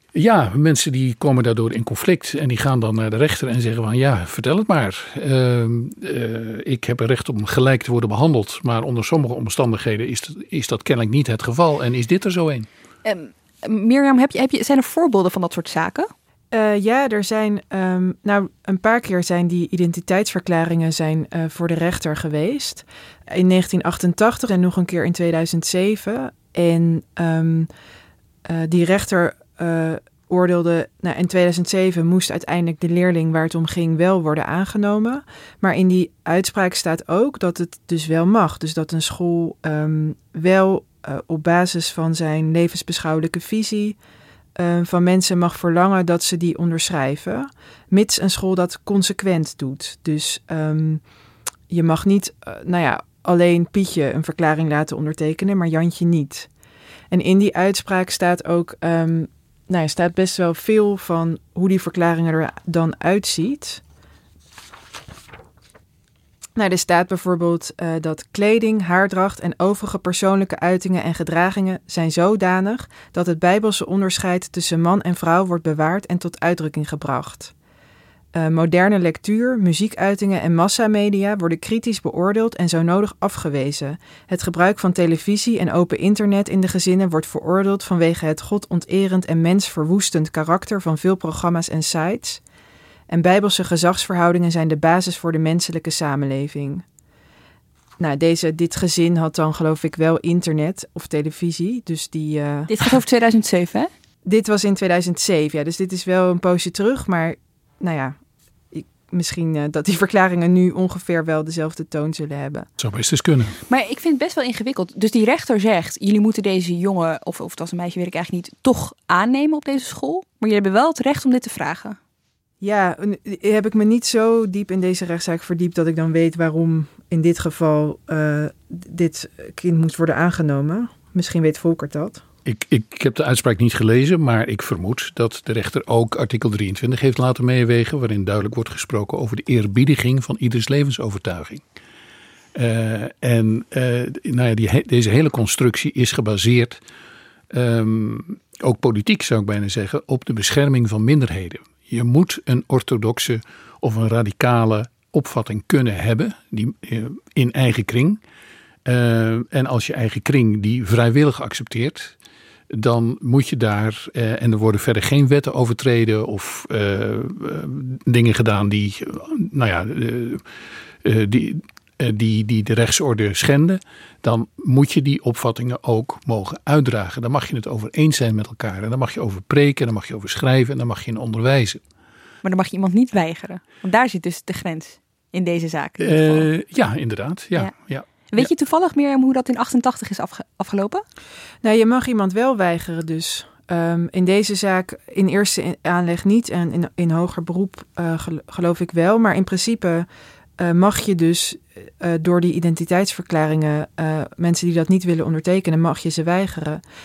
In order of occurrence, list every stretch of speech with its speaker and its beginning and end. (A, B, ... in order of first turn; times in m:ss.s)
0:00.1-0:12.7 A
0:13.0-0:16.1 B
0:16.5-0:27.7 C
0:28.4-0:44.0 C
0:44.6-0:51.0 C
0:51.7-0:56.5 C
0:57.1-1:03.8 C
1:06.6-1:17.5 C
1:18.3-1:32.4 C
1:33.1-1:36.8 C
1:38.0-1:42.7 C
1:42.7-1:43.9 B
1:44.2-1:48.2 C
1:48.7-1:52.7 C
1:52.8-1:53.6 A
1:53.7-2:02.0 B
2:02.6-2:12.2 C
2:12.4-2:21.6 A
2:22.5-2:26.8 A
2:27.5-2:38.2 A
2:38.8-2:42.1 A
2:42.7-2:50.4 A
2:51.0-3:01.8 A
3:02.4-3:06.5 B
3:06.0-3:08.5 A
3:08.3-3:11.0 B
3:11.6-3:20.0 C
3:20.6-3:26.8 C